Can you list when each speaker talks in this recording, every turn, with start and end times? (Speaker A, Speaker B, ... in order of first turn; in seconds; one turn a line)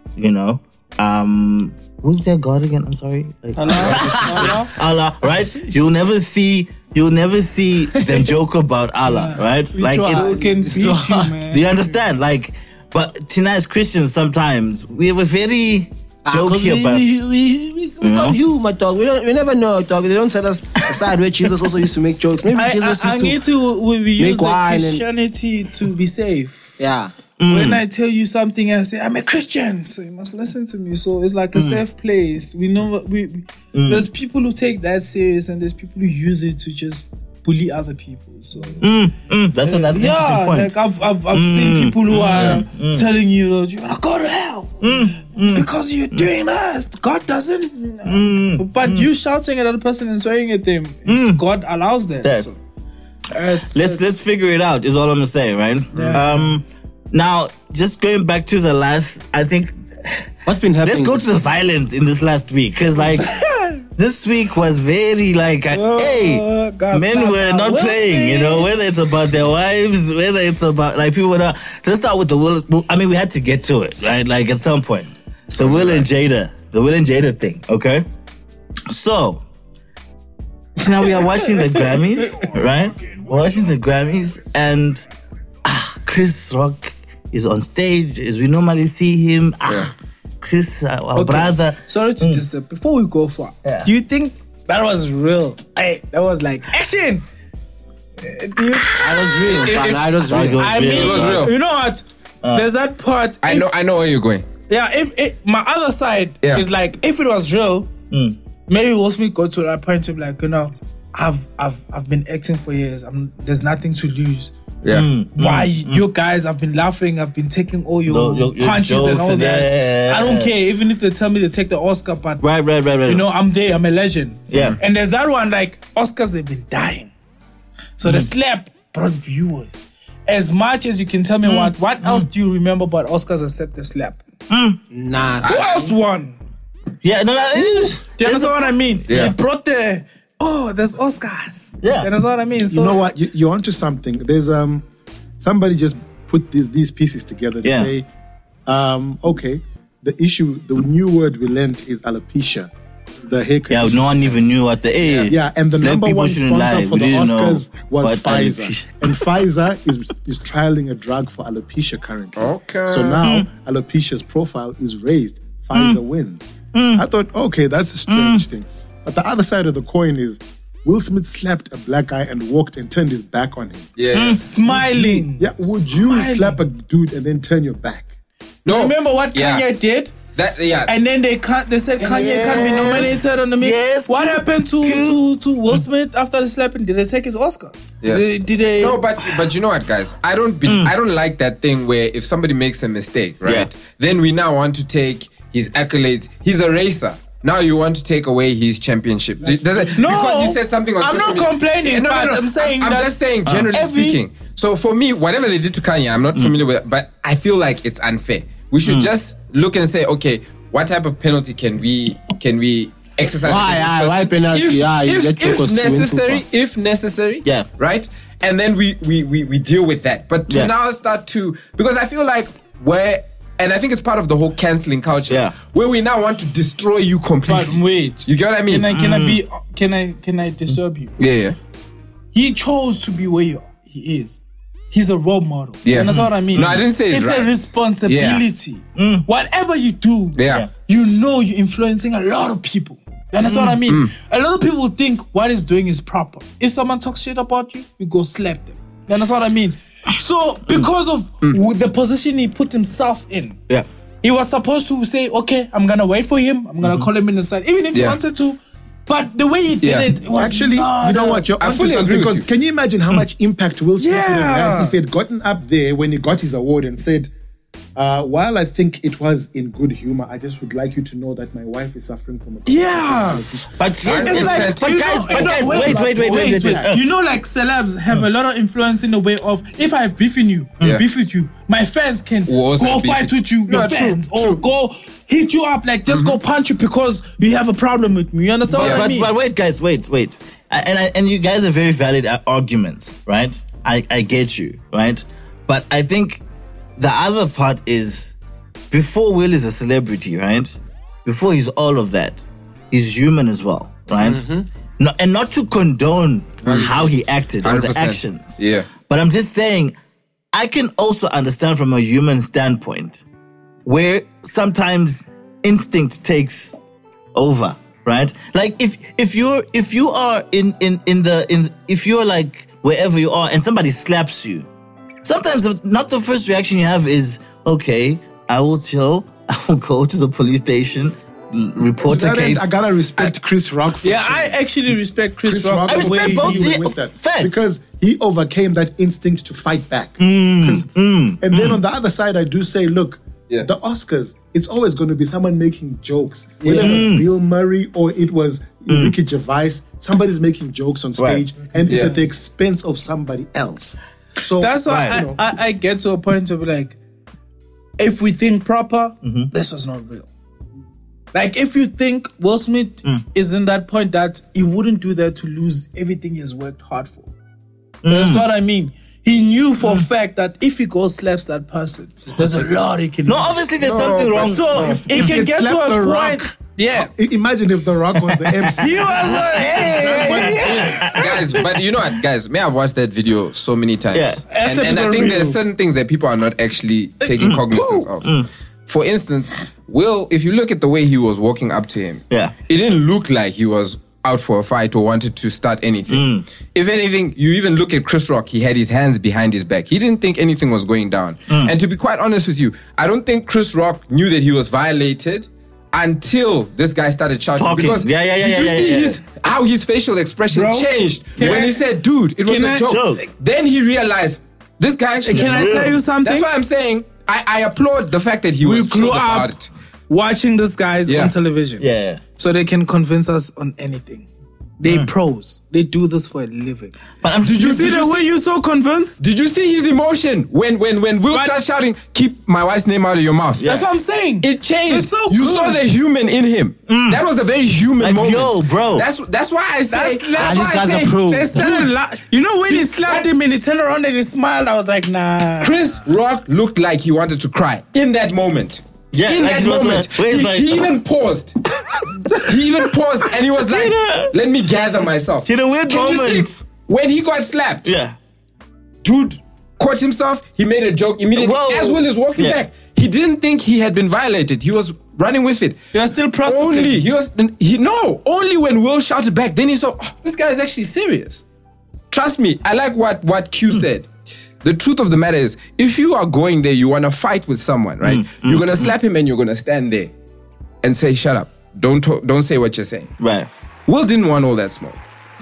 Speaker A: 0.2-10.4
Speaker B: 3.6-4.7
Speaker B: 9.1-11.9
Speaker C: 10.1-11.0
Speaker A: 11.5-17.0
Speaker C: 16.3-23.4
Speaker A: 18.0-18.4
Speaker B: 22.5-26.8
Speaker C: 24.2-25.0
Speaker C: 26.8-27.1
Speaker A: 27.4-27.8
Speaker B: 27.5-38.9
Speaker A: 31.5-31.8
Speaker A: 33.7-34.1
Speaker A: 38.8-40.8
Speaker B: 39.6-52.6
Speaker A: 41.3-43.1
Speaker D: 42.2-42.6
Speaker A: 44.8-46.3
Speaker A: 48.0-49.1
Speaker A: 51.0-51.4
Speaker A: 52.2-52.5
Speaker B: 53.3-54.2
Speaker A: 53.7-60.3
Speaker D: 55.9-56.2
Speaker B: 55.9-56.5
Speaker C: 60.5-61.2
Speaker A: 60.8-63.4
Speaker B: 63.2-63.8
Speaker A: 64.0-78.0
Speaker B: 65.7-68.7
Speaker D: 75.6-76.1
Speaker A: 78.9-79.4
Speaker A: 80.8-85.0
Speaker A: 85.6-92.4
Speaker B: 91.1-97.2
Speaker A: 93.6-93.9
Speaker B: 98.2-99.7
Speaker C: 99.0-100.6
Speaker D: 99.6-100.0
Speaker A: 100.2-101.5
Speaker B: 100.5-103.7
Speaker D: 100.8-101.5
Speaker A: 102.4-102.7
Speaker D: 103.4-104.4
Speaker B: 104.7-107.9
Speaker A: 108.1-108.4
Speaker B: 108.7-114.5
Speaker D: 114.8-115.1
Speaker A: 114.9-116.0
Speaker B: 115.3-122.4
Speaker A: 118.1-120.6
Speaker A: 122.4-123.2
Speaker B: 123.0-127.1
Speaker A: 124.5-124.8
Speaker D: 124.5-124.8
Speaker B: 128.0-134.2
Speaker A: 128.0-128.3
Speaker A: 131.4-132.3
Speaker A: 134.5-134.8
Speaker C: 134.9-135.4
Speaker D: 135.4-135.8
Speaker B: 135.4-136.4
Speaker A: 137.0-138.7
Speaker B: 137.6-143.0
Speaker D: 139.1-139.3
Speaker A: 141.8-142.1
Speaker E: 142.7-144.8
Speaker E: 145.4-148.1
Speaker A: 147.6-147.9
Speaker E: 148.7-152.7
Speaker E: 153.2-154.4
Speaker A: 153.7-159.2
Speaker D: 155.0-155.3
Speaker E: 155.3-173.9
Speaker D: 162.3-163.2
Speaker A: 163.2-163.5
Speaker A: 165.7-166.0
Speaker A: 166.7-167.0
Speaker A: 168.1-168.4
Speaker D: 174.0-174.4
Speaker A: 174.1-174.4
Speaker B: 174.4-176.6
Speaker E: 174.6-178.1
Speaker D: 178.6-179.7
Speaker B: 178.7-180.1
Speaker D: 180.3-180.9
Speaker B: 180.9-189.0
Speaker A: 182.0-185.2
Speaker D: 188.8-228.9
Speaker A: 190.6-190.9
Speaker B: 199.8-203.1
Speaker B: 203.7-204.2
Speaker A: 208.8-209.1
Speaker C: 213.4-216.4
Speaker A: 225.3-225.5
Speaker B: 227.4-231.2
Speaker A: 228.9-229.4
Speaker D: 231.2-231.6
Speaker B: 232.3-253.6
Speaker D: 235.8-238.4
Speaker A: 236.0-236.3
Speaker A: 238.9-239.2
Speaker D: 240.3-240.7
Speaker A: 243.5-243.7
Speaker D: 243.7-244.1
Speaker B: 254.2-261.5
Speaker D: 259.8-260.1
Speaker E: 260.3-267.3
Speaker D: 261.6-262.4
Speaker B: 264.0-264.9
Speaker E: 267.9-274.6
Speaker B: 272.6-273.5
Speaker A: 273.8-277.1
Speaker D: 274.0-274.9
Speaker B: 274.1-289.3
Speaker E: 275.3-277.0
Speaker D: 282.5-284.6
Speaker D: 286.1-286.4
Speaker A: 288.7-296.4
Speaker D: 288.8-289.0
Speaker A: 297.0-298.3
Speaker A: 298.9-302.4
Speaker A: 302.9-304.4
Speaker C: 304.2-304.6
Speaker A: 305.0-309.9
Speaker D: 306.6-308.9
Speaker A: 310.5-313.2
Speaker A: 313.8-316.8
Speaker A: 317.3-324.7
Speaker A: 325.2-332.7
Speaker E: 332.0-334.6
Speaker B: 334.0-336.8
Speaker E: 335.4-340.9
Speaker A: 335.9-337.5
Speaker A: 340.2-341.8
Speaker E: 341.4-355.4
Speaker B: 346.6-347.1
Speaker A: 346.8-347.3
Speaker A: 348.9-349.1
Speaker A: 351.2-351.4
Speaker B: 351.8-352.1
Speaker D: 351.9-352.1
Speaker B: 354.6-357.0
Speaker A: 354.9-355.2
Speaker B: 358.0-360.3
Speaker A: 359.2-359.5
Speaker B: 361.3-367.3
Speaker A: 368.0-368.5
Speaker B: 368.1-373.6
Speaker A: 373.2-375.3
Speaker D: 373.8-375.0
Speaker E: 373.8-381.0
Speaker B: 374.5-377.1
Speaker A: 378.1-381.8
Speaker B: 378.8-381.2
Speaker D: 380.9-388.3
Speaker A: 384.1-384.4
Speaker B: 384.5-385.6
Speaker B: 387.2-388.1
Speaker A: 388.2-388.5
Speaker D: 388.9-419.7
Speaker A: 396.1-396.4
Speaker A: 401.5-401.7
Speaker A: 407.6-409.2
Speaker B: 410.5-411.8
Speaker B: 412.4-413.0
Speaker A: 412.9-413.2
Speaker B: 415.2-416.5
Speaker A: 415.3-416.0
Speaker B: 418.6-419.5
Speaker B: 420.1-421.8
Speaker D: 421.1-421.3
Speaker A: 421.8-422.2
Speaker B: 422.4-424.3
Speaker B: 424.8-429.2
Speaker A: 424.8-425.1
Speaker A: 427.2-428.3
Speaker D: 429.2-433.7
Speaker B: 431.3-431.5
Speaker A: 433.6-433.9
Speaker B: 433.6-435.8
Speaker D: 434.4-441.1
Speaker A: 436.9-437.2
Speaker A: 438.0-439.1
Speaker B: 439.9-445.8
Speaker C: 440.4-441.9
Speaker D: 442.7-443.3
Speaker D: 445.6-451.6
Speaker A: 449.1-450.9
Speaker A: 452.1-452.6
Speaker D: 452.3-457.9
Speaker A: 453.5-454.4
Speaker A: 455.4-456.6
Speaker A: 457.8-458.2
Speaker D: 459.0-465.8
Speaker A: 461.3-462.6
Speaker B: 465.9-467.0
Speaker D: 466.4-471.4
Speaker D: 472.1-474.1
Speaker D: 474.6-480.1
Speaker A: 478.0-478.9
Speaker D: 480.8-483.1
Speaker A: 483.2-483.5
Speaker D: 483.9-485.0